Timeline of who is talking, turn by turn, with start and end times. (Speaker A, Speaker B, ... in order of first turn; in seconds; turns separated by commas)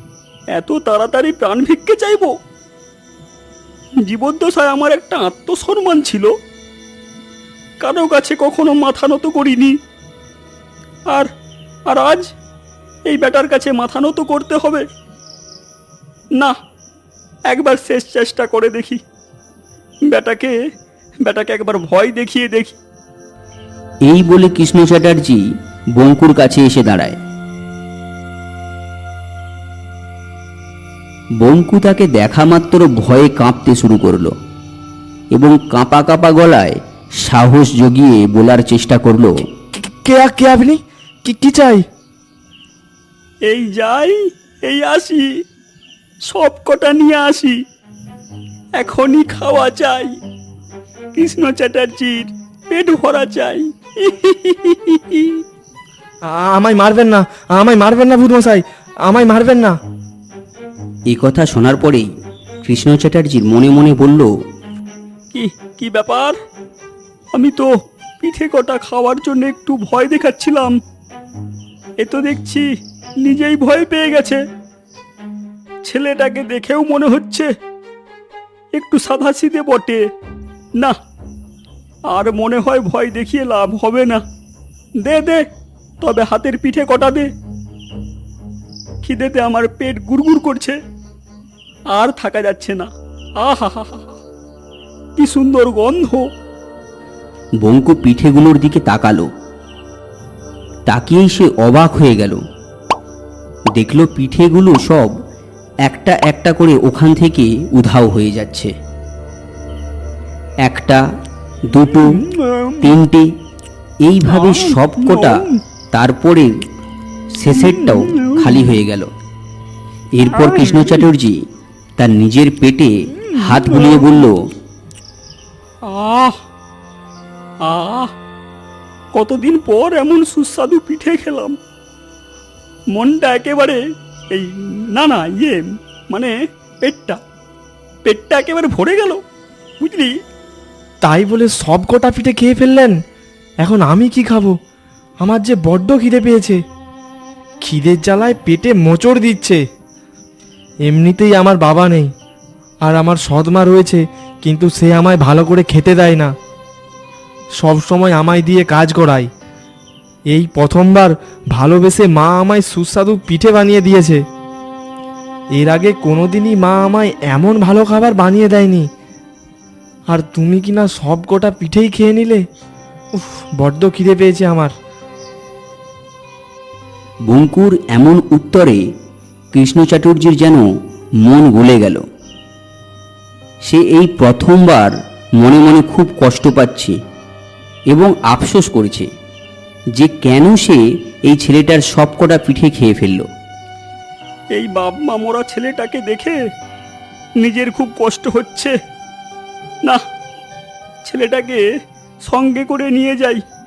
Speaker A: 0.6-2.4, Speaker A: 4.0-6.3, Speaker A: 7.8-9.8, Speaker A: 11.9-12.3, Speaker A: 13.1-14.8, Speaker A: 17.5-19.0, Speaker A: 20.1-20.6, Speaker A: 21.2-22.8, Speaker B: 24.1-25.4, Speaker B: 25.9-27.2, Speaker B: 31.4-34.4, Speaker B: 35.3-39.3, Speaker C: 40.0-41.9, Speaker A: 43.5-45.3, Speaker A: 46.3-47.6, Speaker A: 48.8-50.2, Speaker A: 51.2-55.4, Speaker C: 56.3-59.8, Speaker B: 61.1-62.1, Speaker B: 62.6-64.3, Speaker A: 65.3-66.4, Speaker A: 67.3-67.7, Speaker A: 68.2-70.8, Speaker A: 72.0-72.7, Speaker A: 73.2-74.4, Speaker A: 75.9-77.5, Speaker A: 78.8-80.0, Speaker A: 82.1-84.2, Speaker A: 85.0-85.5, Speaker A: 86.0-87.3, Speaker A: 89.0-90.8, Speaker A: 91.9-92.9, Speaker A: 93.4-94.0, Speaker A: 95.2-96.2, Speaker B: 97.6-99.3, Speaker B: 100.9-102.4, Speaker B: 103.8-105.1, Speaker B: 105.8-108.7, Speaker B: 110.6-111.0, Speaker B: 111.7-112.2, Speaker A: 112.2-112.8, Speaker B: 112.8-113.3, Speaker B: 114.0-116.5, Speaker A: 114.3-115.6, Speaker B: 117.3-119.1, Speaker A: 117.7-118.5, Speaker B: 120.2-121.4, Speaker A: 120.4-120.7, Speaker B: 122.0-124.4, Speaker A: 123.6-124.0, Speaker A: 125.8-126.4, Speaker A: 127.7-128.1, Speaker A: 129.1-131.6, Speaker A: 132.9-133.8, Speaker A: 134.3-136.3, Speaker A: 136.8-137.2, Speaker A: 138.1-139.2, Speaker A: 139.8-140.1, Speaker C: 141.0-143.0, Speaker C: 143.6-144.6, Speaker C: 145.2-146.6, Speaker C: 147.6-149.6, Speaker C: 150.9-152.1, Speaker C: 152.8-156.3, Speaker C: 157.6-159.3, Speaker C: 160.3-164.2, Speaker C: 165.6-168.9, Speaker C: 170.1-172.5, Speaker C: 173.2-174.7, Speaker B: 177.3-178.8, Speaker B: 179.5-180.7, Speaker B: 181.2-182.0, Speaker B: 183.7-187.0, Speaker B: 187.9-189.1, Speaker B: 189.9-193.3, Speaker A: 194.6-196.4, Speaker A: 197.4-198.7, Speaker A: 201.1-201.7, Speaker A: 202.3-203.4